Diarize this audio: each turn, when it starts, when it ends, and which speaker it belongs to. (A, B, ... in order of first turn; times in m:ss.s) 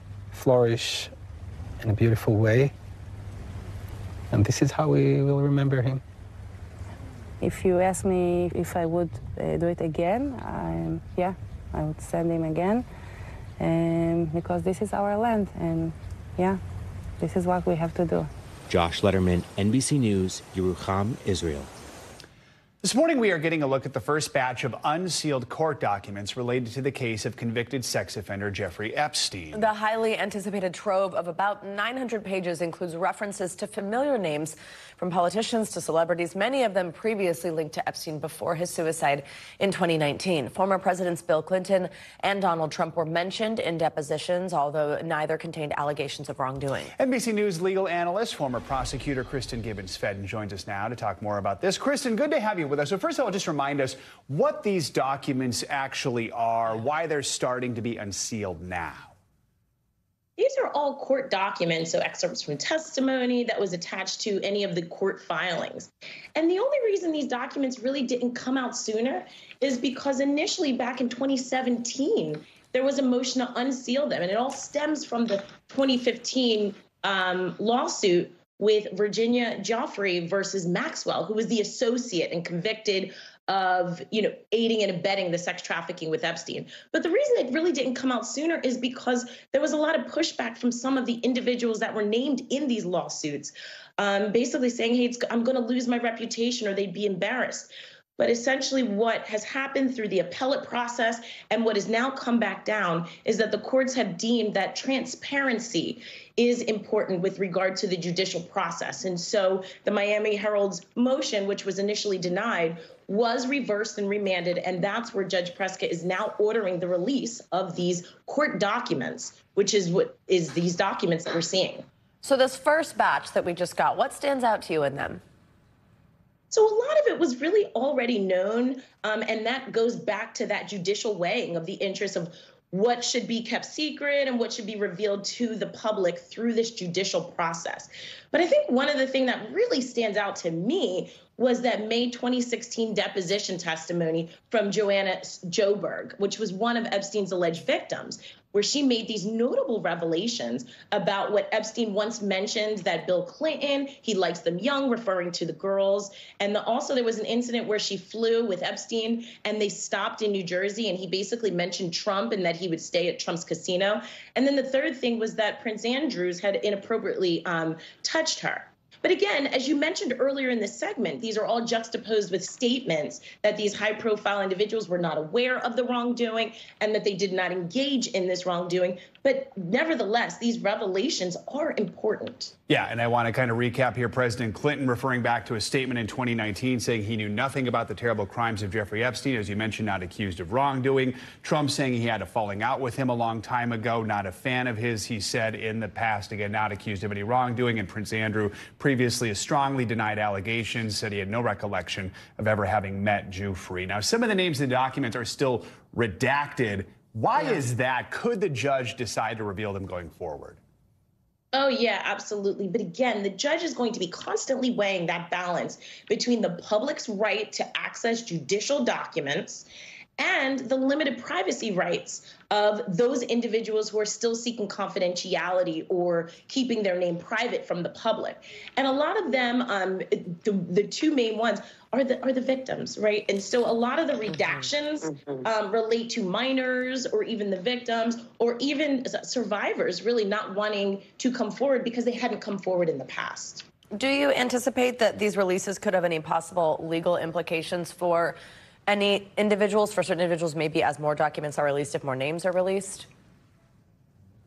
0:00.3-0:01.1 A
0:01.8-0:02.7 A
0:04.3-0:06.0 A
0:07.4-0:12.8 B
0:13.6-0:16.6 B
0:17.2-0:18.3 B
0:18.7-0:21.7 C
0:22.8-0:29.6 D
0:29.5-0:46.9 E
0:47.0-0:59.1 D
1:00.4-2:01.8 F
2:02.2-2:05.2 E
2:06.5-3:02.5 F
3:02.7-3:30.6 D
3:31.5-3:39.7 F
3:40.2-4:03.6 F
4:03.9-4:13.1 E